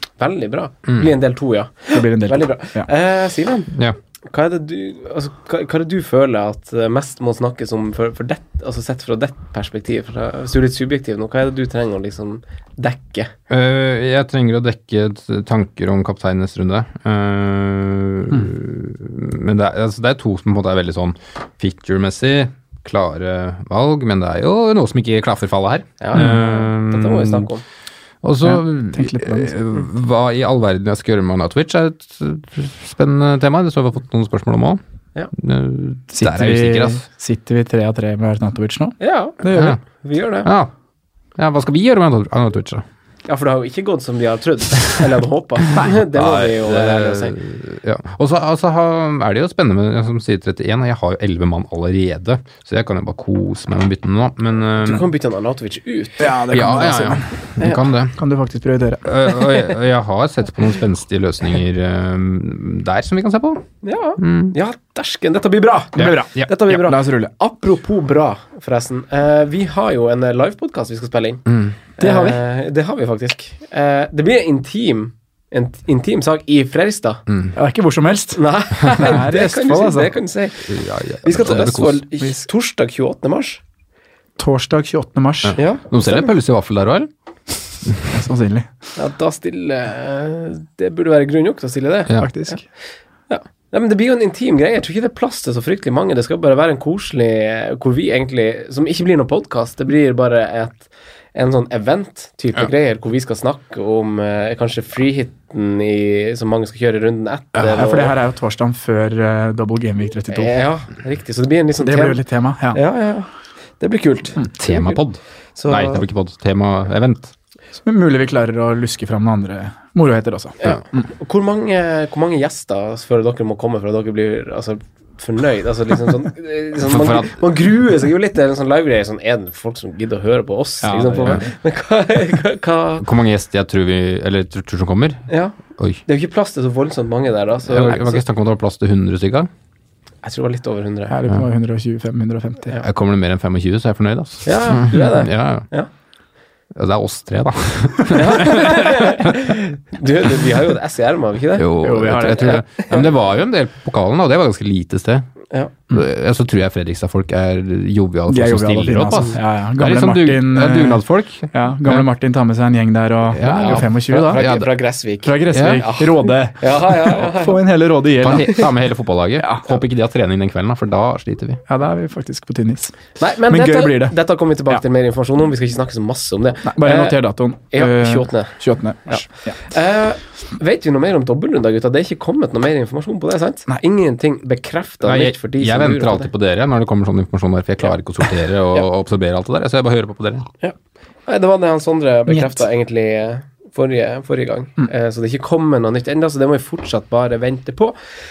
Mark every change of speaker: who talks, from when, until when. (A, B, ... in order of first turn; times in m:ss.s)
0:00.2-0:03.7 A
0:01.9-0:02.9 B
0:04.3-0:13.3 A
0:13.5-0:27.5 C
0:26.0-0:27.6 A
0:26.1-0:26.4 B
0:28.2-0:34.8 C
0:28.4-0:29.5 B
0:35.3-0:37.0 C
0:36.1-0:39.8 B
0:39.0-0:40.5 A
0:39.5-0:39.8 C
0:40.4-0:40.7 C
0:41.4-0:42.8 C
0:43.2-0:47.3 A
0:45.8-0:55.0 C
0:54.8-0:56.3 A
0:56.2-0:57.3 B
0:56.5-0:58.2 C
0:58.1-0:59.0 B
0:59.0-1:03.6 C
1:03.8-1:11.4 A
1:04.2-1:04.6 C
1:06.0-1:07.3 B
1:06.0-1:06.7 C
1:11.5-1:11.8 C
1:12.0-1:17.2 A
1:12.0-1:12.4 B
1:17.3-1:17.5 C
1:17.5-1:20.1 B
1:18.3-1:20.7 A
1:20.7-1:22.0 C
1:21.2-1:23.6 A
1:22.2-1:22.4 B
1:24.4-1:25.6 B
1:25.4-1:27.1 C
1:25.6-1:26.3 A
1:28.0-1:28.7 B
1:29.0-1:32.6 A
1:32.2-1:32.6 B
1:33.3-1:48.1 A
1:47.7-1:50.5 B
1:50.3-1:53.3 A
1:51.8-1:52.8 B
1:53.8-1:55.0 A
1:54.6-1:57.3 C
1:55.6-1:56.0 A
1:57.8-2:01.1 B
2:00.6-2:13.0 A
2:06.8-2:07.4 C
2:10.8-2:11.5 B
2:13.0-2:16.0 C
2:15.3-2:18.2 A
2:17.7-2:19.5 C
2:20.2-2:21.1 A
2:21.1-2:22.8 B
2:22.8-2:25.7 C
2:24.4-2:25.9 A
2:26.7-2:29.4 C
2:28.1-2:31.6 A
2:31.6-2:35.2 C
2:31.8-2:32.6 B
2:32.4-2:33.0 A
2:35.9-2:42.1 C
2:38.3-2:44.7 B
2:43.3-2:44.7 C
2:43.6-2:47.6 A
2:45.2-2:48.7 B
2:45.5-2:45.8 C
2:48.2-2:51.6 C
2:49.4-2:49.7 B
2:51.7-2:53.0 B
2:53.2-2:57.2 A
2:53.5-2:54.8 B
2:56.6-2:59.6 B
2:57.7-3:06.3 A
3:05.0-3:10.4 C
3:11.3-3:18.0 A
3:12.3-3:12.6 B